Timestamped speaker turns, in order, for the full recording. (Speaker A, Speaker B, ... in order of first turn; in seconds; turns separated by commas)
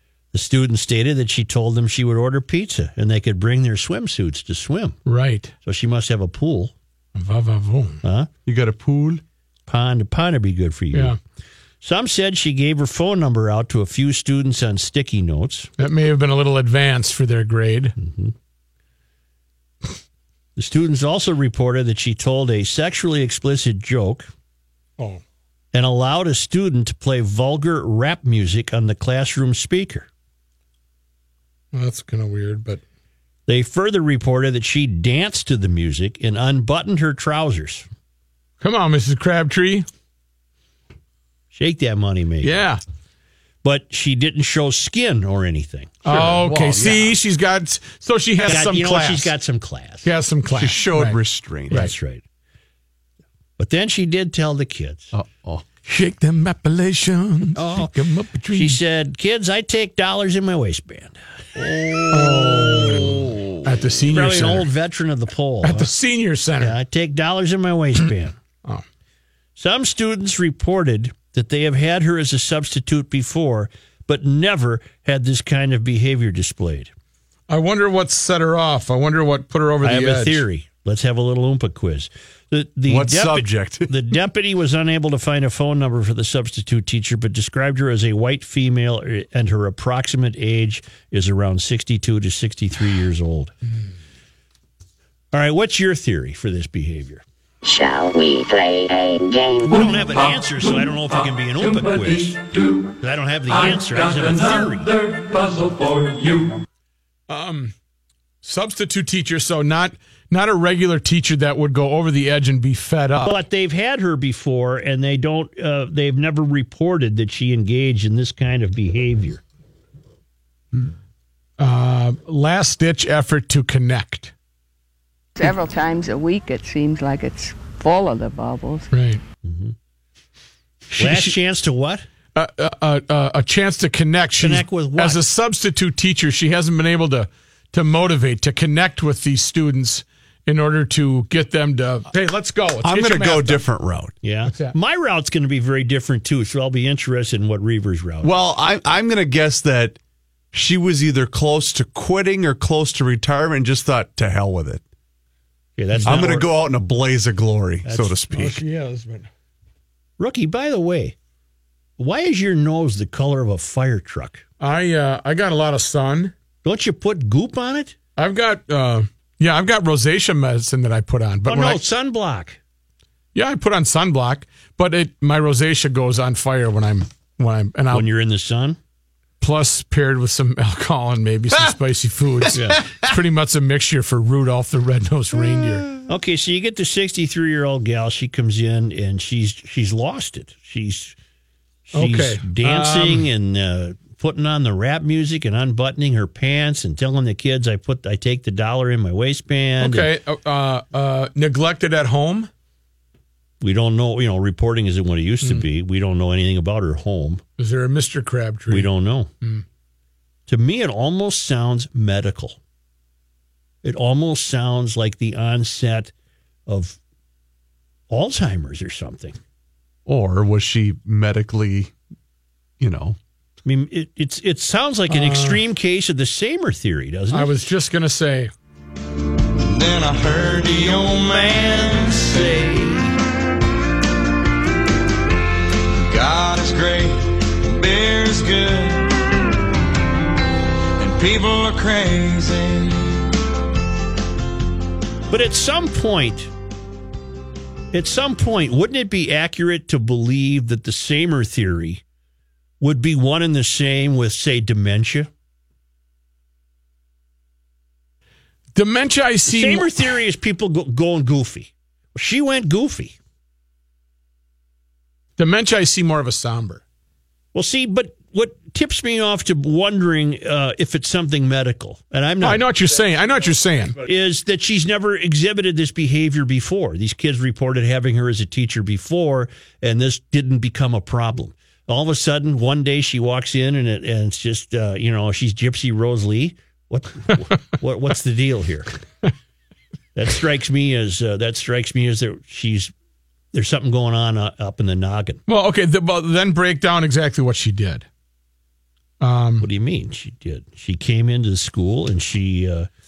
Speaker A: 0.3-5.0, Speaker B: 5.1-5.5, Speaker A: 5.6-6.7, Speaker B: 7.2-8.0, Speaker A: 8.0-8.3, Speaker C: 8.5-9.2, Speaker A: 9.7-11.2, Speaker A: 11.8-15.7, Speaker B: 15.8-17.9, Speaker A: 18.0-18.3, Speaker A: 20.6-24.3, Speaker A: 25.7-30.1, Speaker B: 31.7-32.8, Speaker A: 33.5-37.9, Speaker B: 38.6-39.9, Speaker A: 41.5-42.6, Speaker B: 42.4-42.8, Speaker A: 43.6-46.0, Speaker B: 46.0-49.3, Speaker C: 46.1-47.2, Speaker A: 48.5-50.1, Speaker B: 50.0-51.2, Speaker C: 50.5-51.9, Speaker A: 51.7-52.2, Speaker A: 53.6-55.1, Speaker C: 55.1-55.7, Speaker B: 55.9-58.8, Speaker A: 57.5-57.9, Speaker A: 58.5-61.2, Speaker A: 61.9-63.1, Speaker B: 62.1-64.7, Speaker A: 64.1-65.9, Speaker B: 65.6-66.8, Speaker A: 66.6-68.3, Speaker A: 69.6-76.9, Speaker B: 77.5-80.4, Speaker A: 79.8-93.5, Speaker C: 82.9-84.0, Speaker A: 95.3-97.2, Speaker D: 97.6-99.7, Speaker A: 99.6-105.1, Speaker B: 107.3-107.7, Speaker B: 108.4-113.4, Speaker A: 113.2-119.4, Speaker B: 121.6-124.3, Speaker E: 125.4-128.9, Speaker B: 128.9-129.2, Speaker A: 129.4-129.8, Speaker A: 131.0-132.1, Speaker B: 131.0-131.3, Speaker B: 132.3-143.6, Speaker A: 134.4-135.2, Speaker C: 142.8-144.2, Speaker A: 144.2-148.3, Speaker C: 148.2-150.0, Speaker C: 150.5-154.8, Speaker A: 155.8-156.5, Speaker C: 156.1-158.6, Speaker A: 157.8-158.2, Speaker B: 158.3-159.3, Speaker A: 160.2-161.2, Speaker A: 162.0-164.4, Speaker B: 164.6-166.3, Speaker A: 166.6-167.9, Speaker B: 168.2-171.8, Speaker A: 171.5-172.6, Speaker B: 173.3-178.1, Speaker A: 177.9-178.8, Speaker B: 179.4-185.9, Speaker C: 182.5-183.1, Speaker A: 182.5-182.8, Speaker A: 186.1-191.2, Speaker A: 191.9-200.1, Speaker B: 191.9-193.3, Speaker B: 199.8-202.5, Speaker A: 203.6-207.4, Speaker B: 207.6-208.9, Speaker A: 208.7-209.3, Speaker A: 210.5-212.6, Speaker A: 213.8-216.1, Speaker A: 216.7-217.0, Speaker A: 218.1-219.4, Speaker C: 220.1-221.9, Speaker C: 222.8-223.2, Speaker A: 223.7-227.5, Speaker B: 225.1-225.6, Speaker B: 227.3-228.5, Speaker F: 229.6-232.4, Speaker A: 231.4-233.2, Speaker F: 235.9-239.1, Speaker F: 241.0-243.2, Speaker A: 245.3-246.5, Speaker A: 247.9-252.0, Speaker A: 252.8-255.3, Speaker B: 258.8-260.1, Speaker A: 259.5-263.2, Speaker B: 265.4-266.8, Speaker A: 267.5-272.6, Speaker B: 272.4-274.0, Speaker A: 274.0-288.9, Speaker A: 290.1-292.9, Speaker A: 293.5-295.4, Speaker B: 295.5-298.1, Speaker B: 299.2-299.7, Speaker A: 299.6-302.9